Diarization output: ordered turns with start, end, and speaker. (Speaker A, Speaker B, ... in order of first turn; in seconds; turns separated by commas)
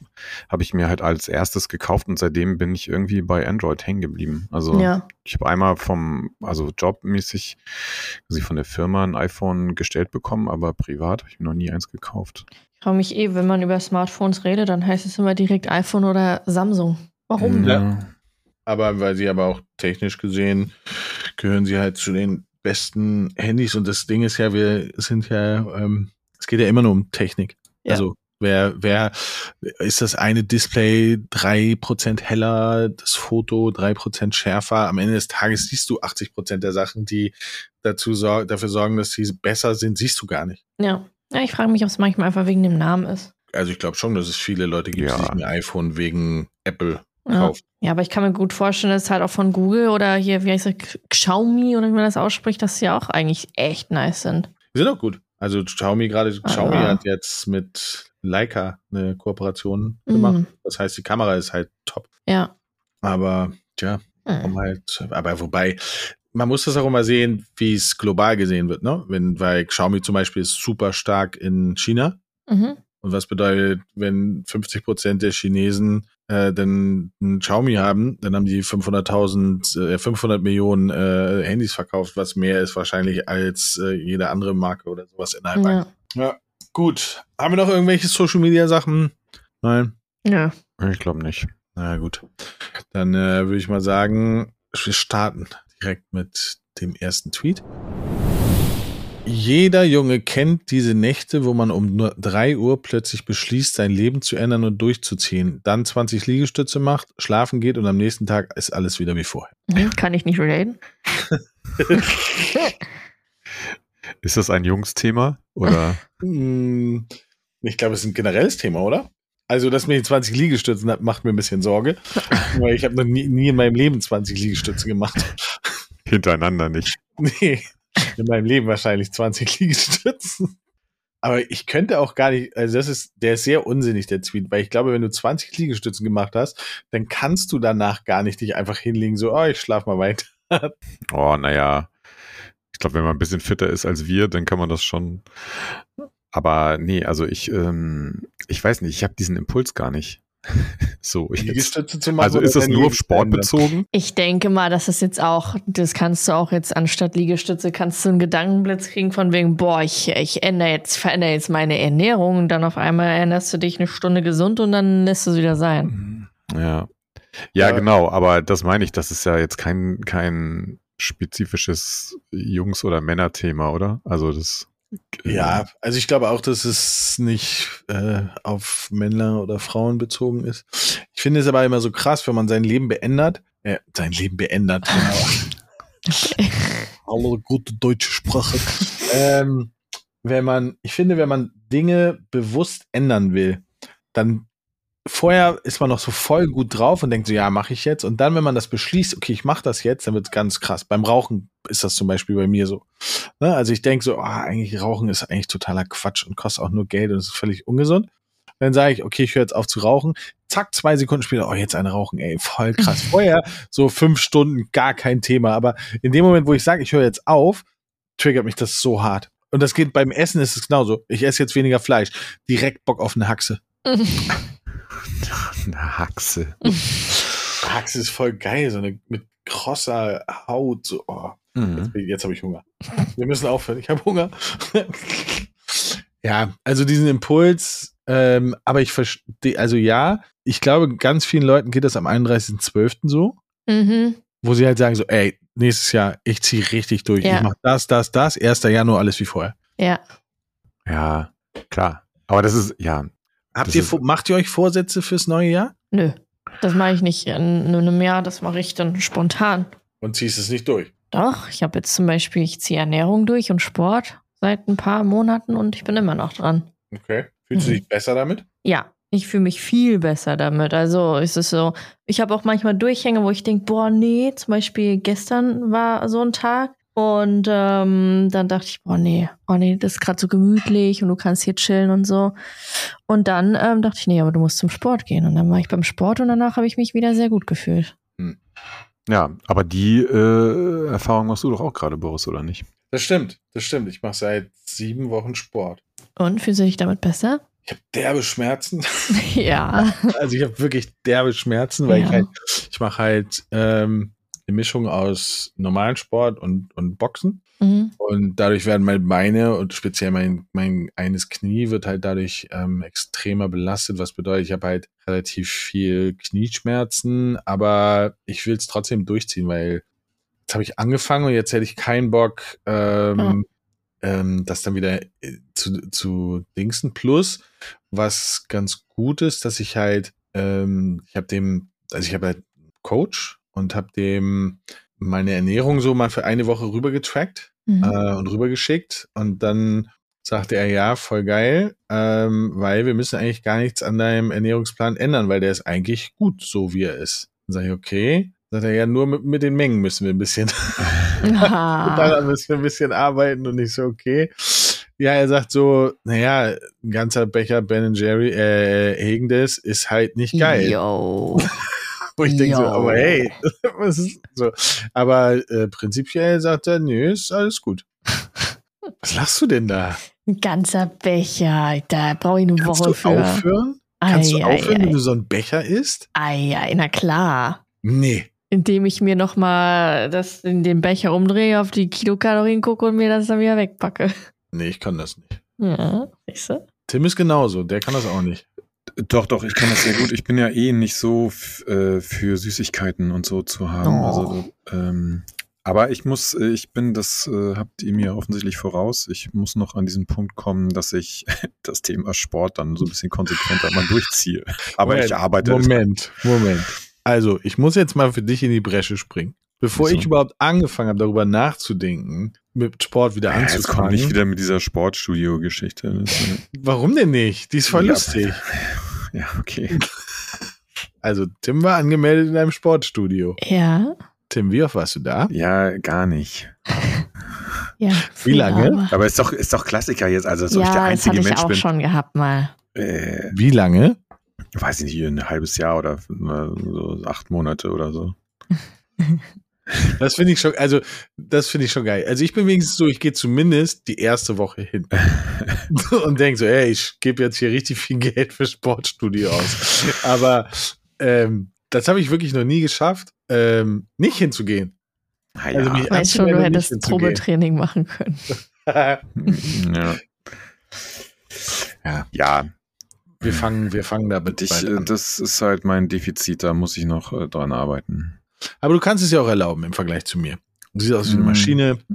Speaker A: 0.5-12.4, Speaker B: 4.7-5.0, Speaker B: 12.8-17.7, Speaker A: 17.4-18.1, Speaker C: 18.6-40.6, Speaker B: 40.8-43.3, Speaker C: 43.5-47.6, Speaker A: 44.9-45.4, Speaker B: 47.3-54.5, Speaker C: 54.7-62.1, Speaker B: 56.4-57.0, Speaker B: 60.1-60.5, Speaker C: 63.0-72.2, Speaker B: 64.2-64.5, Speaker B: 72.5-72.8, Speaker C: 73.0-89.9, Speaker B: 85.5-85.9, Speaker B: 90.2-90.5, Speaker A: 90.8-91.5, Speaker C: 91.7-97.6, Speaker C: 99.2-109.6, Speaker B: 109.7-110.8, Speaker C: 111.3-112.6, Speaker A: 114.2-116.0, Speaker C: 116.2-117.1, Speaker C: 117.6-125.8, Speaker A: 126.1-127.0, Speaker C: 127.0-130.5, Speaker C: 131.2-140.7, Speaker A: 141.1-141.9, Speaker A: 142.7-145.8, Speaker A: 146.3-153.8, Speaker C: 151.4-153.8, Speaker B: 153.9-165.9, Speaker A: 165.9-166.9, Speaker A: 167.5-175.6, Speaker C: 167.6-167.9, Speaker C: 175.2-185.5, Speaker B: 186.1-186.9, Speaker C: 187.0-194.4, Speaker C: 195.1-217.6, Speaker C: 218.2-223.6, Speaker B: 223.8-224.4, Speaker A: 225.2-227.3, Speaker C: 227.6-243.4, Speaker A: 231.6-231.9, Speaker B: 243.7-244.2, Speaker C: 244.4-249.5, Speaker B: 247.2-247.5, Speaker A: 250.8-253.1, Speaker C: 253.5-255.7, Speaker A: 253.6-254.0, Speaker B: 255.9-259.7, Speaker C: 260.0-260.9, Speaker B: 261.1-266.7, Speaker C: 266.9-268.4, Speaker B: 267.5-267.8, Speaker B: 268.6-287.9, Speaker A: 289.1-292.7, Speaker C: 292.9-295.8, Speaker B: 296.2-297.4, Speaker C: 297.6-299.2, Speaker B: 299.1-300.1, Speaker C: 299.8-307.4, Speaker B: 301.9-302.3, Speaker B: 307.6-307.9, Speaker C: 308.0-319.8, Speaker C: 320.5-323.4, Speaker C: 324.0-360.8, Speaker B: 337.7-337.9, Speaker B: 351.2-352.2, Speaker B: 360.3-361.5, Speaker C: 362.2-367.8, Speaker B: 362.2-363.3, Speaker C: 369.0-370.0, Speaker B: 370.3-373.4, Speaker C: 372.6-376.1, Speaker B: 374.0-374.9, Speaker B: 376.1-377.6, Speaker C: 377.8-378.3, Speaker B: 378.5-384.2, Speaker C: 384.5-385.4, Speaker B: 385.6-386.6, Speaker C: 386.9-388.4, Speaker A: 389.0-405.8, Speaker B: 393.8-394.4, Speaker C: 404.8-414.1, Speaker A: 409.8-410.1, Speaker A: 413.3-416.4, Speaker C: 416.5-418.4, Speaker A: 417.7-419.8, Speaker C: 421.0-423.4, Speaker B: 423.4-423.9, Speaker C: 424.3-425.3, Speaker A: 425.3-426.7, Speaker B: 427.8-428.9, Speaker C: 428.2-428.8, Speaker A: 428.9-431.7, Speaker B: 430.5-432.5, Speaker A: 432.7-433.4, Speaker C: 433.3-434.0, Speaker A: 434.6-438.2, Speaker C: 440.0-445.0, Speaker A: 445.0-445.6, Speaker C: 445.7-454.7, Speaker A: 455.4-455.9, Speaker C: 455.5-457.2, Speaker B: 455.9-458.3, Speaker C: 458.6-459.1, Speaker A: 459.1-460.4, Speaker A: 462.1-462.5, Speaker A: 463.2-463.5, Speaker C: 463.2-464.9, Speaker A: 464.3-468.2, Speaker C: 468.6-471.8, Speaker A: 471.1-471.6